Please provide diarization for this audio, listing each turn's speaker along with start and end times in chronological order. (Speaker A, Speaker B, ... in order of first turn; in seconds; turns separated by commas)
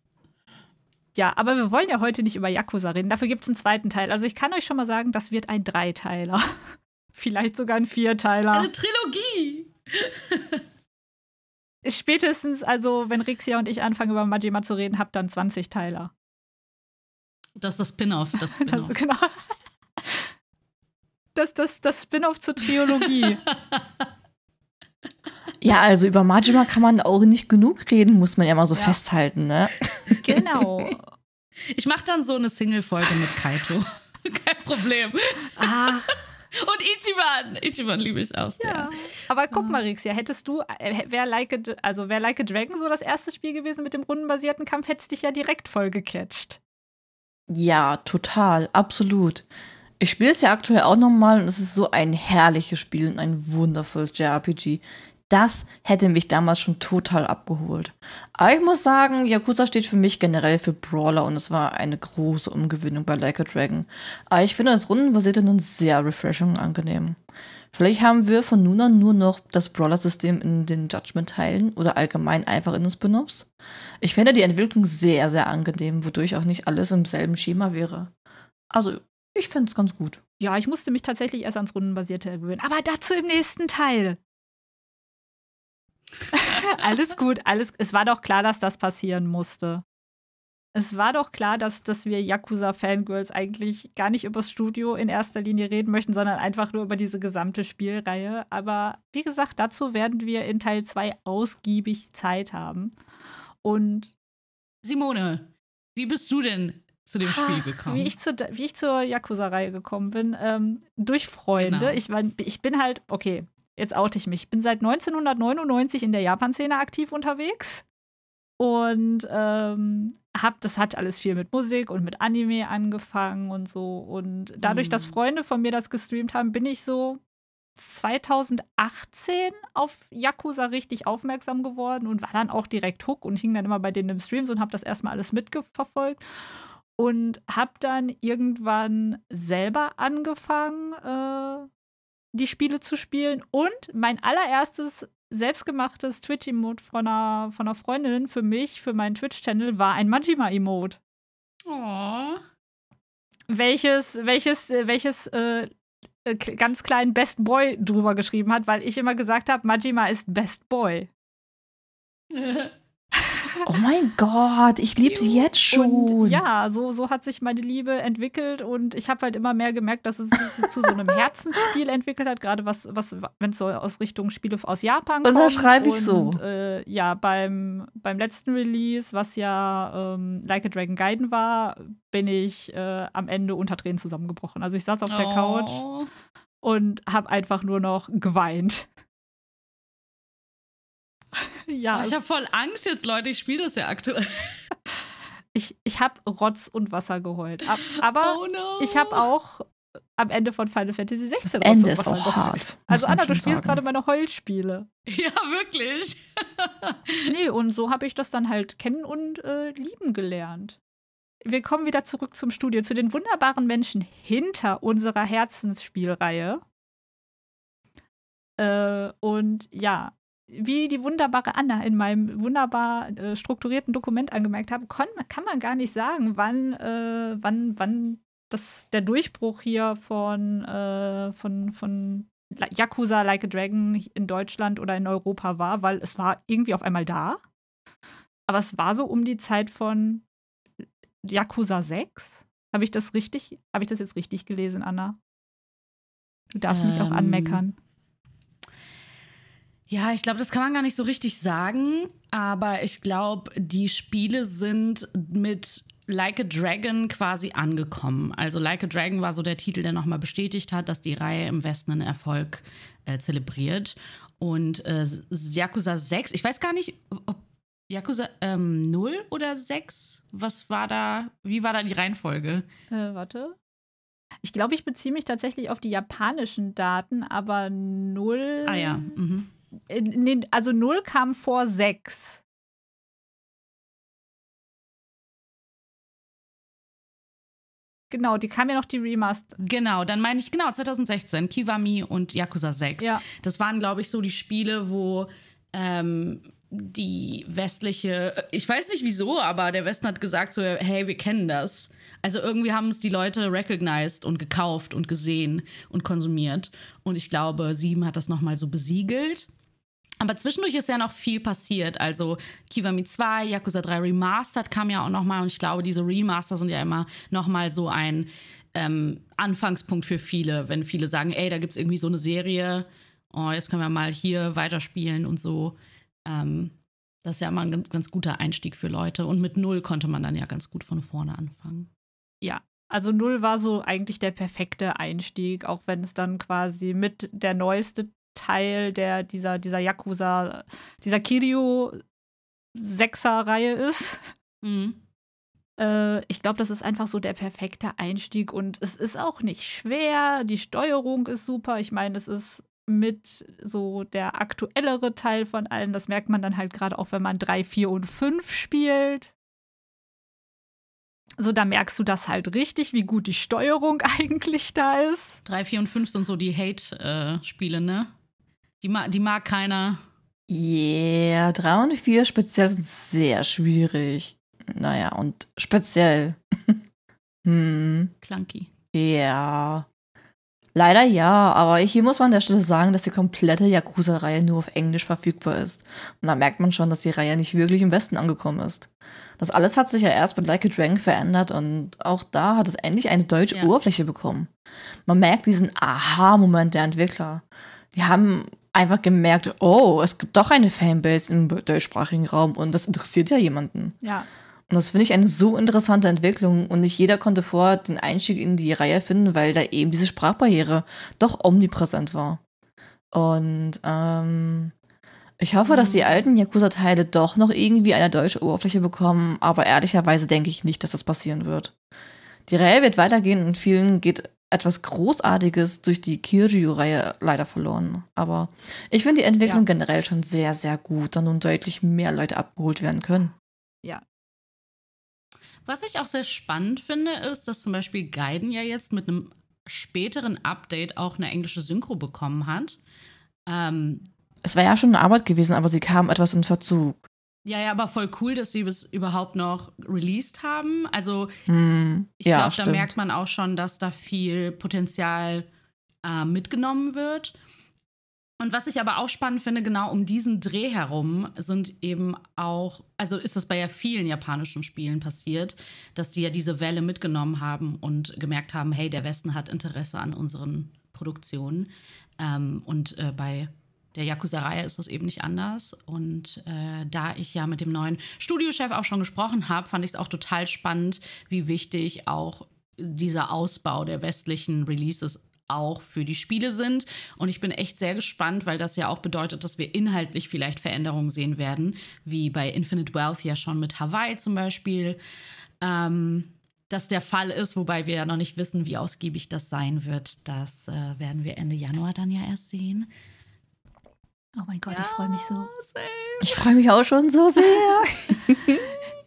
Speaker A: 1.1-8.7, Speaker B: 8.5-10.6, Speaker A: 11.8-16.1, Speaker B: 17.6-19.0, Speaker A: 18.6-20.3, Speaker A: 21.4-23.4, Speaker B: 22.9-24.1, Speaker C: 25.6-30.9, Speaker A: 30.2-31.1, Speaker B: 31.7-36.0, Speaker A: 35.6-36.2, Speaker B: 36.5-38.9, Speaker A: 38.6-46.6, Speaker B: 39.5-39.8, Speaker C: 47.5-49.5, Speaker C: 50.0-67.2, Speaker C: 67.7-73.5, Speaker C: 74.0-78.1, Speaker C: 78.7-80.2, Speaker A: 80.4-84.2, Speaker A: 86.3-89.8, Speaker A: 90.8-103.0, Speaker A: 103.6-104.1, Speaker B: 104.8-108.1, Speaker A: 107.2-117.8, Speaker B: 111.6-112.0, Speaker A: 118.6-127.2, Speaker B: 124.6-125.2, Speaker A: 127.8-136.2, Speaker A: 137.0-141.7, Speaker A: 142.3-151.0, Speaker B: 151.7-152.4, Speaker A: 153.5-155.7, Speaker A: 156.2-161.1, Speaker B: 162.3-162.7, Speaker C: 163.7-166.4, Speaker B: 165.1-165.4, Speaker A: 165.7-185.8, Speaker C: 175.2-176.4, Speaker B: 185.1-186.1, Speaker A: 186.6-188.9, Speaker A: 191.7-192.2, Speaker B: 191.9-194.6, Speaker A: 195.5-204.9, Speaker B: 197.9-199.3, Speaker C: 201.4-203.8, Speaker B: 205.1-207.2, Speaker A: 207.2-210.8, Speaker A: 211.4-216.6, Speaker A: 218.6-237.4, Speaker A: 238.5-240.2, Speaker A: 241.2-245.2, Speaker A: 246.5-247.8, Speaker B: 246.7-247.6, Speaker B: 249.9-272.7, Speaker A: 272.9-273.6, Speaker A: 274.4-279.1, Speaker B: 278.7-279.5, Speaker A: 279.9-282.4, Speaker A: 288.1-289.6, Speaker B: 289.6-309.5, Speaker B: 310.2-331.9, Speaker A: 332.4-342.0, Speaker A: 342.8-344.3, Speaker B: 344.6-345.0, Speaker A: 345.8-359.3, Speaker A: 361.4-365.4, Speaker B: 365.4-368.1, Speaker B: 368.8-370.0, Speaker C: 370.5-376.8, Speaker C: 377.4-378.1, Speaker B: 378.2-378.7, Speaker C: 378.9-379.9, Speaker C: 380.8-394.5, Speaker C: 395.1-404.0, Speaker A: 404.0-404.3, Speaker C: 404.7-412.4, Speaker C: 413.1-414.7, Speaker C: 415.4-421.7, Speaker B: 415.7-416.2, Speaker C: 422.5-433.3, Speaker B: 435.7-442.8, Speaker B: 443.5-444.1, Speaker C: 444.4-447.0, Speaker B: 447.5-451.4, Speaker C: 451.5-452.9, Speaker B: 452.2-455.5, Speaker B: 456.0-457.4, Speaker B: 458.4-495.0, Speaker B: 495.6-502.9, Speaker A: 504.4-505.5, Speaker B: 504.7-506.4, Speaker C: 506.2-508.6